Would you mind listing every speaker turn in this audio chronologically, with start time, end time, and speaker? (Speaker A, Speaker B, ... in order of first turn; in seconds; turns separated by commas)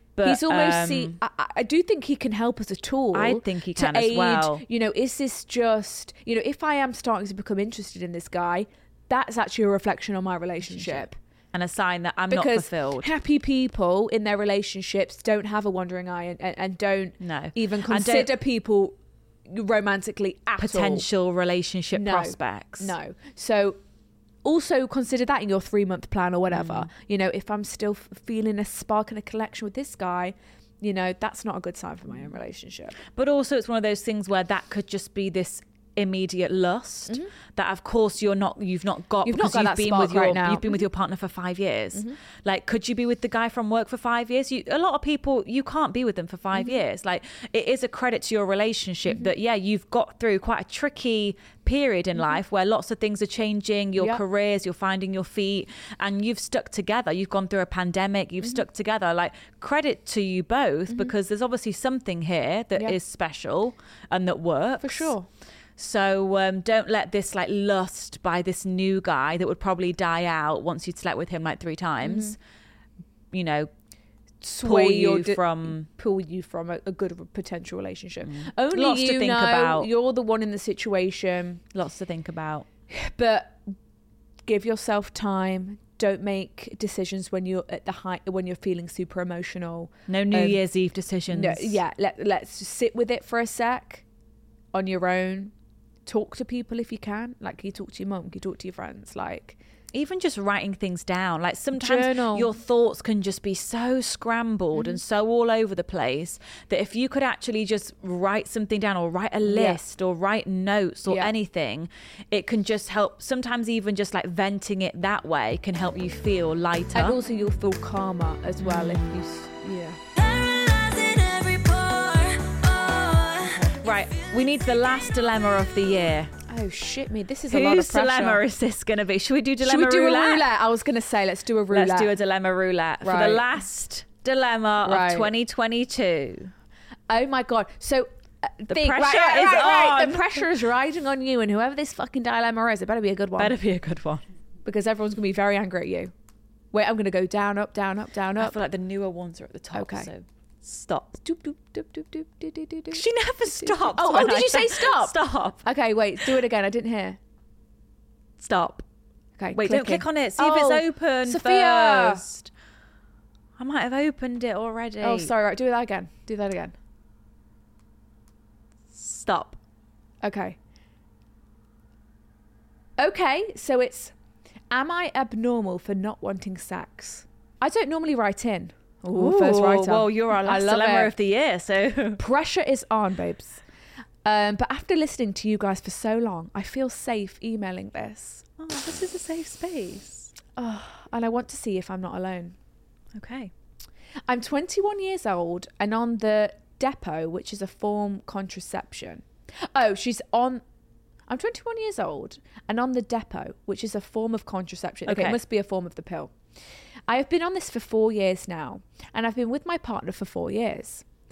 Speaker A: 0.1-1.2, Speaker B: 0.2-11.2, Speaker A: 3.1-4.6, Speaker A: 10.6-13.1, Speaker B: 12.3-18.9, Speaker A: 17.2-18.4, Speaker B: 19.5-21.1, Speaker A: 20.6-22.9, Speaker B: 21.9-23.8, Speaker B: 24.4-33.0, Speaker A: 26.5-26.9, Speaker A: 33.1-65.1, Speaker B: 39.2-40.8, Speaker B: 60.9-61.1, Speaker B: 64.8-65.3, Speaker A: 65.8-72.4, Speaker B: 72.0-72.3, Speaker A: 73.3-73.7, Speaker B: 74.4-81.6, Speaker A: 74.6-75.8, Speaker A: 78.2-79.9, Speaker A: 81.7-82.7, Speaker B: 82.9-83.6, Speaker B: 84.5-90.6, Speaker A: 90.1-91.8, Speaker B: 91.3-94.0, Speaker B: 94.7-95.5, Speaker B: 96.0-99.6, Speaker A: 99.9-117.2, Speaker B: 101.8-102.5, Speaker B: 104.7-105.0, Speaker B: 109.5-109.8, Speaker B: 116.9-120.0, Speaker A: 118.6-119.1, Speaker C: 120.1-123.8, Speaker A: 123.7-126.3, Speaker B: 126.5-128.4, Speaker A: 127.5-130.4, Speaker B: 129.6-132.1, Speaker A: 131.7-136.5, Speaker B: 133.0-133.4, Speaker B: 134.8-135.3, Speaker B: 137.1-143.5, Speaker A: 138.7-140.5, Speaker A: 143.4-144.2, Speaker B: 144.6-146.1, Speaker B: 146.7-148.6, Speaker A: 148.4-151.2, Speaker B: 149.7-150.1, Speaker B: 151.2-157.2, Speaker A: 152.9-155.6, Speaker A: 158.4-158.8, Speaker B: 159.4-162.2, Speaker A: 159.5-162.5, Speaker A: 163.6-165.3, Speaker B: 165.0-166.7, Speaker A: 168.9-169.6, Speaker B: 170.2-170.6, Speaker B: 173.0-174.1, Speaker B: 174.7-181.1, Speaker A: 179.1-182.2, Speaker B: 182.2-183.6, Speaker B: 184.2-188.4, Speaker A: 188.6-190.3, Speaker B: 190.6-192.5, Speaker A: 193.1-193.5, Speaker B: 194.3-200.6, Speaker B: 201.3-206.3, Speaker A: 205.1-205.4, Speaker B: 207.1-211.0